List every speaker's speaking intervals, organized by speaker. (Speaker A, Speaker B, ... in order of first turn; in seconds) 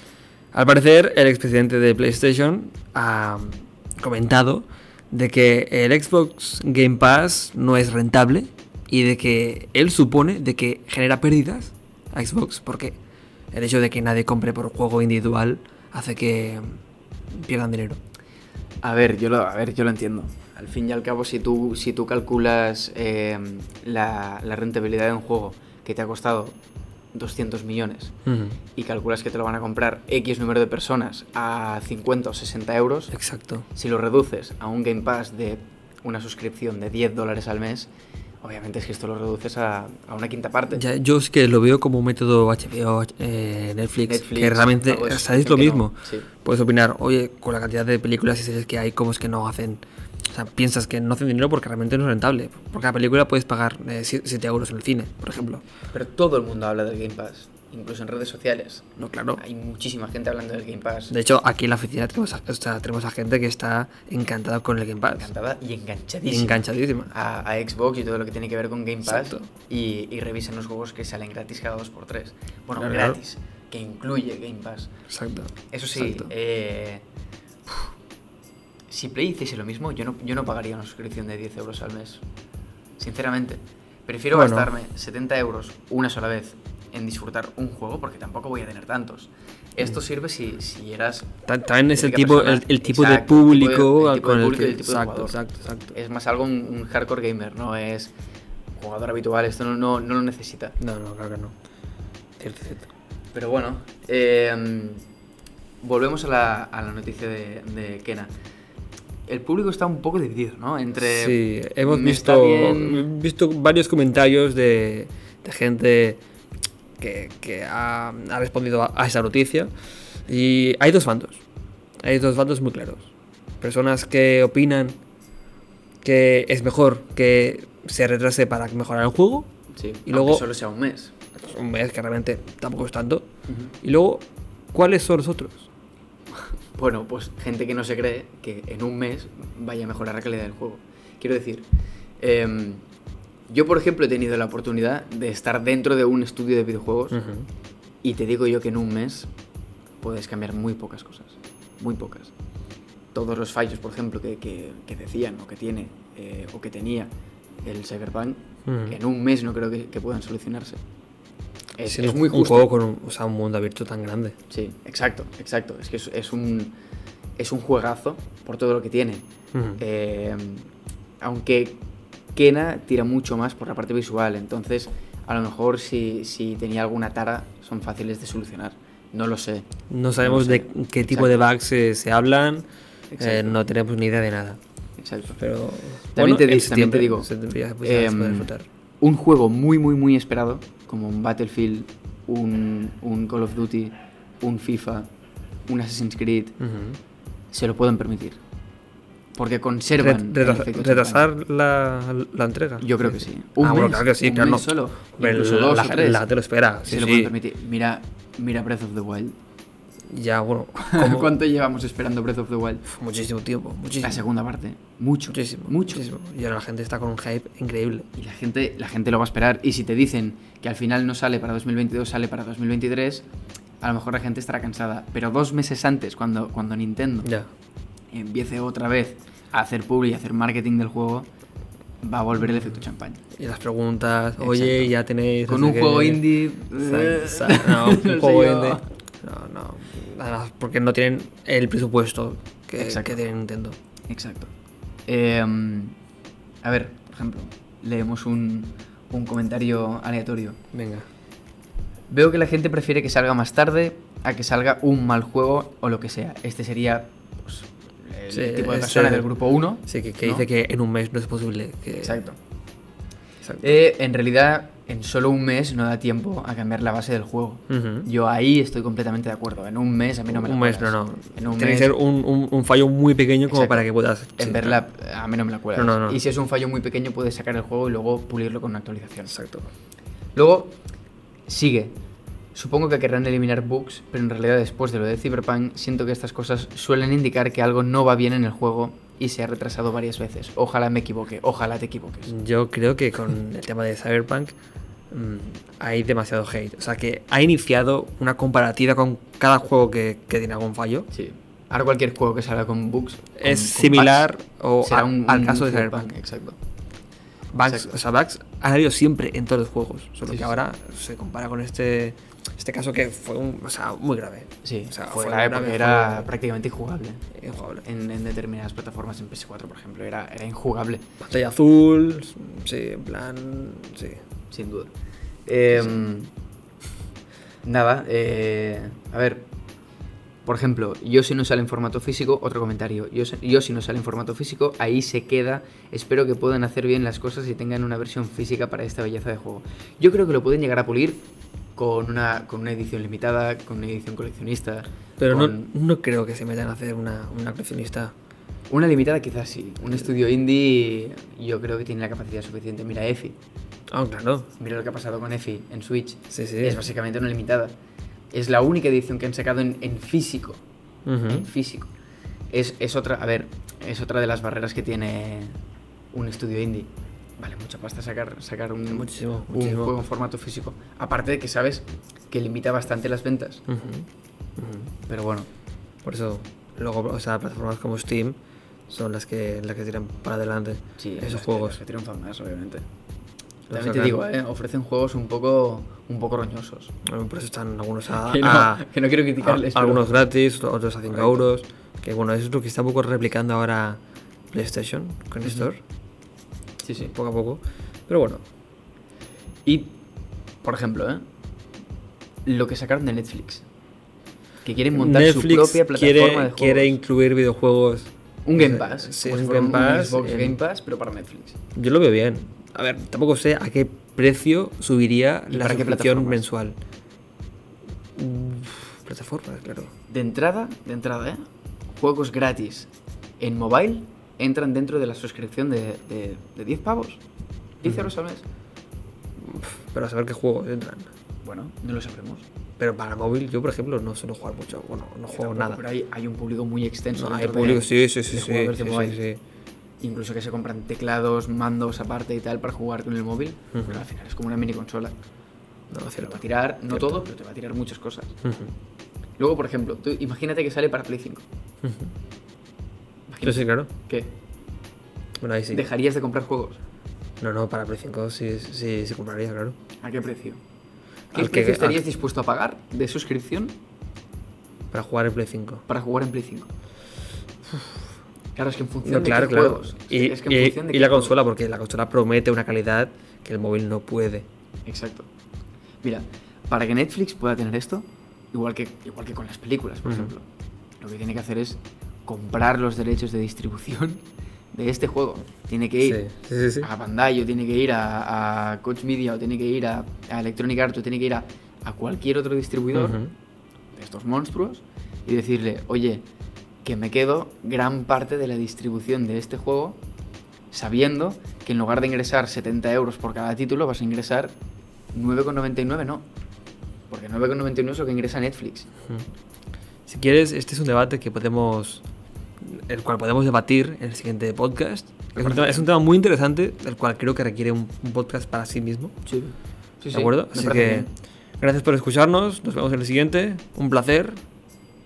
Speaker A: 0.5-13.0, 13.5-16.8, 17.3-18.0, 28.3-28.6, 33.1-33.7, 40.7-55.6, 59.0-59.4, 61.1-65.3, 66.3-67.1, 69.0-69.5, 72.8-73.2, 75.1-76.3, 84.3-84.7, 91.5-95.9, 100.8-101.5, 102.4-102.9, 111.0-116.2, 117.0-119.7, 120.3-121.4, 122.0-123.1, 123.6-125.0, 126.0-129.5, 130.1-130.4, 131.4-133.3, 133.8-135.7, 147.1-147.5, 158.7-159.0, 161.8-164.4, 169.5-169.8, 179.9-182.7, 183.2-184.6, 185.4-188.7, 196.6-197.0, 200.0-207.3, 210.1-211.3, 212.9-214.2, 215.3-218.1, 227.2-227.5, 233.4-243.8, 250.7-251.1, 258.3-259.3, 259.9-262.2, 263.4-263.7, 267.7-268.1, 270.3-274.8, 275.8-276.2, 279.3-279.7, 292.3-294.5, 295.1-301.1, 303.4-306.1, 307.5-316.3, 317.4-317.8, 321.2-324.2, 345.2-348.1, 353.9-354.5, 356.3-356.8, 361.1-361.5, 368.9-369.9, 373.7-374.1, 374.6-374.9, 376.0-378.4, 378.9-381.8, 383.7-384.2, 387.1-388.8, 389.4-394.0, 394.5-395.8, 397.0-398.4, 404.9-410.6, 411.8-416.8, 418.2-419.9, 427.9-428.1, 429.4-431.1, 432.8-435.8, 437.1-439.4, 443.7-444.0, 445.9-447.2, 448.4-448.7, 451.8-452.1, 453.4-453.9, 455.4-455.9, 457.4-459.8, 461.3-462.0, 464.9-465.8, 469.0-474.5, 480.1-480.3, 486.0-486.9, 492.9-493.3, 510.1-512.0, 512.6-519.1, 520.1-521.1, 521.6-524.4
Speaker B: 18.8-26.6, 27.1-28.1, 28.8-33.1, 33.7-37.9, 38.4-40.8, 44.1-46.3, 55.9-61.1, 65.1-74.9, 75.7-77.0, 78.9-82.2, 83.0-91.3, 91.9-95.4, 95.9-98.1, 98.8-100.8, 103.3-105.0, 105.8-108.3, 109.3-113.1, 129.7-131.1, 133.5-133.7, 136.8-141.7, 142.2-142.8, 143.5-147.2, 148.0-149.3, 150.0-152.3, 153.1-157.1, 157.6-160.8, 161.8-162.7, 164.5-166.8, 167.4-169.2, 169.8-170.7, 171.2-171.8, 172.3-179.7, 180.2-181.4, 183.1-183.6, 185.0-185.4, 186.2-187.3, 187.8-195.1, 195.7-196.6, 197.5-198.4, 199.4-201.3, 202.8-206.2, 206.9-209.4, 210.8-212.9, 214.0-216.1, 218.2-223.3, 223.8-227.3, 228.1-231.3, 232.0-233.2, 234.4-234.9, 235.5-238.9, 242.8-243.2, 244.1-244.5, 245.1-245.9, 246.6-250.6, 252.1-260.5, 262.0-262.4, 263.6-272.0, 273.5-273.9, 274.4-279.4, 280.4-280.8, 281.5-282.0, 282.6-292.3, 301.1-304.3, 304.8-306.6, 307.6-308.0, 310.3-310.6, 314.6-317.2, 317.8-321.0, 324.5-324.9, 325.5-326.3, 327.6-329.5, 330.4-341.2, 341.8-345.7, 348.7-353.4, 354.6-357.7, 358.3-360.6, 361.3-361.9, 362.5-365.6, 366.1-373.6, 375.1-375.5, 381.0-382.9, 383.7-386.9, 388.1-390.2, 391.1-391.4, 396.8-397.1, 399.7-400.0, 400.6-401.2, 402.4-403.6, 404.6-407.0, 408.5-411.6, 415.5-416.4, 420.1-422.9, 423.4-427.2, 427.8-428.4, 431.4-432.5, 435.3-439.2, 440.0-445.1, 446.0-448.3, 449.4-451.4, 453.3-454.3, 455.7-456.8, 460.0-460.6, 461.3-463.8, 465.9-466.7, 468.6-471.4, 474.9-475.3, 476.0-480.5, 481.0-486.3, 486.8-493.2, 493.9-496.2, 496.8-500.0, 500.7-504.5, 505.1-506.3, 507.1-508.9, 515.3-515.9, 519.3-521.1